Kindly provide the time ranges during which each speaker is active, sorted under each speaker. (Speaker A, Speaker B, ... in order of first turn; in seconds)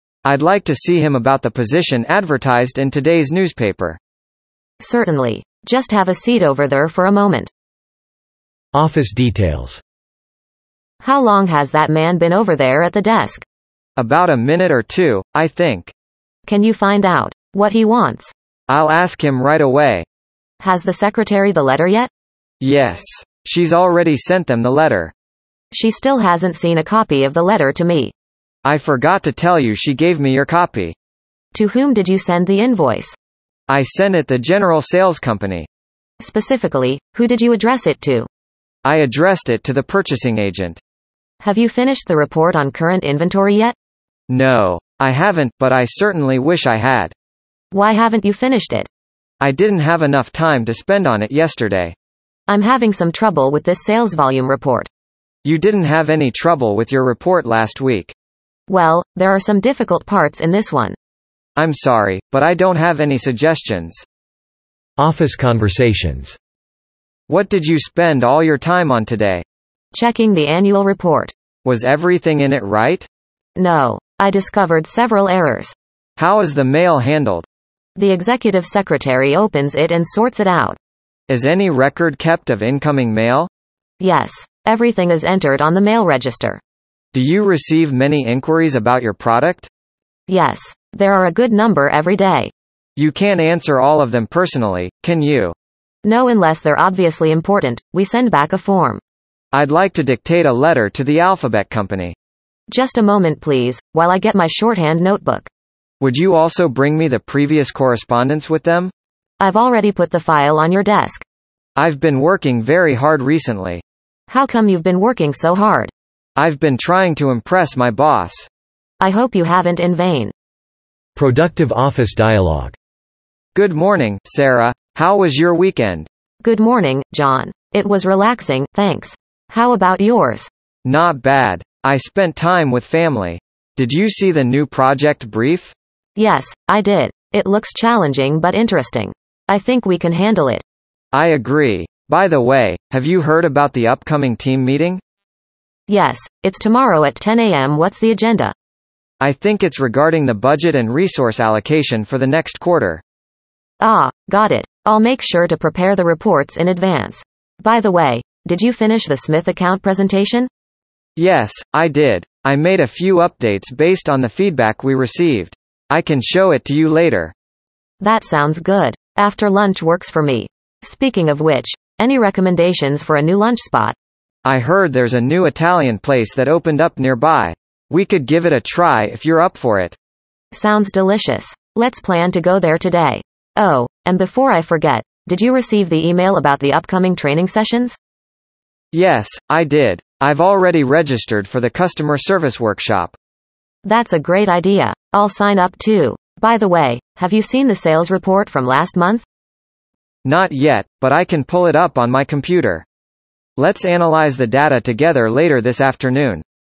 Speaker A: 0.2-4.0, 14.0-15.9, 18.7-20.1, 22.6-25.1, 28.6-30.9, 33.7-35.7, 38.8-40.8, 44.3-47.1, 49.4-51.9, 55.4-58.1, 61.5-64.0, 67.3-69.4, 71.6-73.1, 76.2-77.5, 81.3-83.5, 87.1-89.7, 93.0-95.5, 99.5-102.2, 106.0-108.9, 111.8-113.8, 116.3-118.5, 123.5-126.1, 130.8-135.7, 141.1-145.0, 149.2-153.0, 161.2-167.3, 174.4-180.0, 188.9-193.2, 200.2-202.8, 203.6-206.4
Speaker B: 4.8-7.5, 11.0-13.4, 16.5-18.3, 20.6-22.1, 25.7-28.1, 31.5-33.1, 36.2-38.3, 41.4-43.8, 47.7-48.9, 52.5-54.9, 58.7-61.0, 69.9-71.3, 73.6-75.7, 78.0-80.8, 84.0-86.6, 90.3-92.5, 96.0-99.0, 102.7-105.5, 109.4-111.2, 114.3-115.9, 119.0-120.3, 126.4-130.5, 136.2-140.6, 145.9-148.5, 153.8-160.5, 168.0-173.9, 180.5-188.0, 193.8-199.2
Speaker C: 8.7-9.8, 65.0-66.4, 121.2-122.8